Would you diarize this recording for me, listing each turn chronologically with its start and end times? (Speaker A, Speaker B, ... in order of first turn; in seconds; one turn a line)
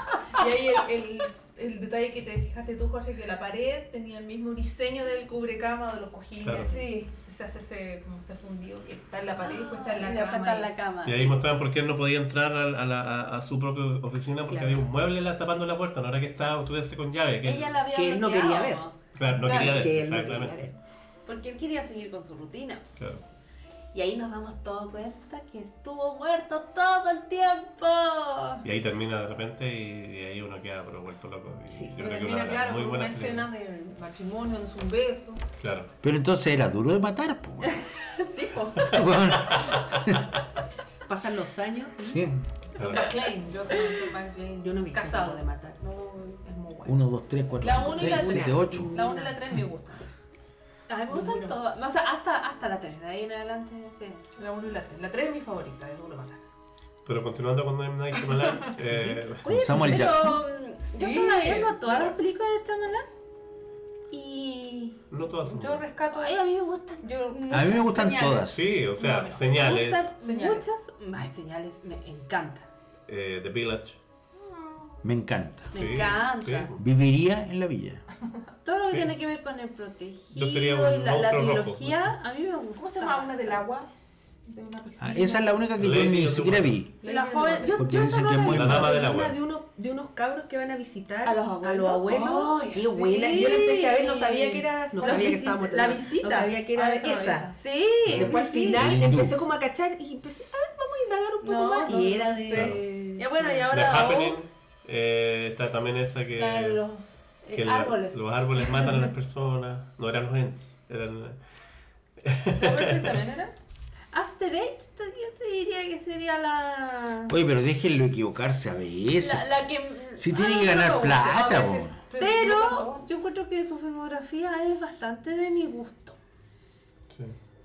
Speaker A: 0.3-10.7
Speaker B: 6.4-6.7
Speaker C: 6.6-7.1
Speaker C: 9.4-11.4
Speaker B: 11.0-17.8
Speaker D: 14.5-14.8
Speaker C: 17.4-19.7
Speaker D: 17.9-18.9
Speaker B: 19.1-20.6
Speaker D: 19.4-20.7
Speaker A: 19.5-19.8
Speaker C: 21.2-22.8
Speaker B: 23.0-23.2
Speaker C: 23.9-28.6
Speaker B: 28.6-33.5
Speaker A: 31.9-35.4
Speaker B: 35.6-35.9
Speaker E: 36.0-37.8
Speaker C: 38.2-38.8
Speaker E: 38.8-40.2
Speaker B: 38.8-39.8
Speaker D: 41.1-42.2
Speaker E: 42.0-42.4
Speaker B: 42.8-43.1
Speaker A: 42.8-45.8
Speaker D: 44.6-45.8
Speaker C: 45.8-46.4
Speaker A: 46.4-47.0
Speaker E: 46.8-48.9
Speaker A: 47.6-50.1
Speaker D: 47.8-49.5
Speaker C: 50.9-54.2
Speaker A: 51.1-51.6
Speaker A: 54.3-56.4
Speaker B: 57.0-59.5
Speaker D: 58.8-59.2
Speaker C: 59.4-63.0
Speaker E: 59.4-60.4
Speaker A: 60.9-62.1
Speaker C: 64.1-65.0
Speaker B: 65.1-65.8
Speaker A: 65.4-70.6
Speaker C: 66.1-68.0
Speaker E: 67.5-68.8
Speaker B: 68.5-70.1
Speaker C: 69.0-72.7
Speaker B: 73.1-74.0
Speaker A: 74.4-75.0
Speaker E: 75.0-75.8
Speaker C: 75.7-76.7
Speaker B: 75.7-76.8
Speaker E: 76.8-78.0
Speaker C: 78.6-83.7
Speaker B: 78.8-79.1
Speaker B: 80.3-82.1
Speaker A: 82.8-83.9
Speaker A: 84.5-85.6
Speaker E: 85.0-86.9
Speaker B: 85.8-86.8
Speaker A: 87.0-88.2
Speaker C: 87.0-89.0
Speaker E: 87.7-89.0
Speaker B: 88.4-89.4
Speaker D: 88.7-97.5
Speaker C: 91.2-99.1
Speaker A: 92.0-93.8
Speaker A: 95.0-97.5
Speaker E: 98.1-99.4
Speaker D: 98.1-103.7
Speaker C: 101.4-104.4
Speaker B: 102.5-102.8
Speaker B: 103.7-106.8
Speaker C: 106.4-108.9
Speaker B: 107.5-111.4
Speaker B: 112.2-113.2
Speaker A: 112.5-113.5
Speaker C: 114.1-117.3
Speaker E: 117.3-119.6
Speaker C: 119.2-121.4
Speaker E: 120.2-122.0
Speaker A: 120.7-123.0
Speaker C: 122.1-126.2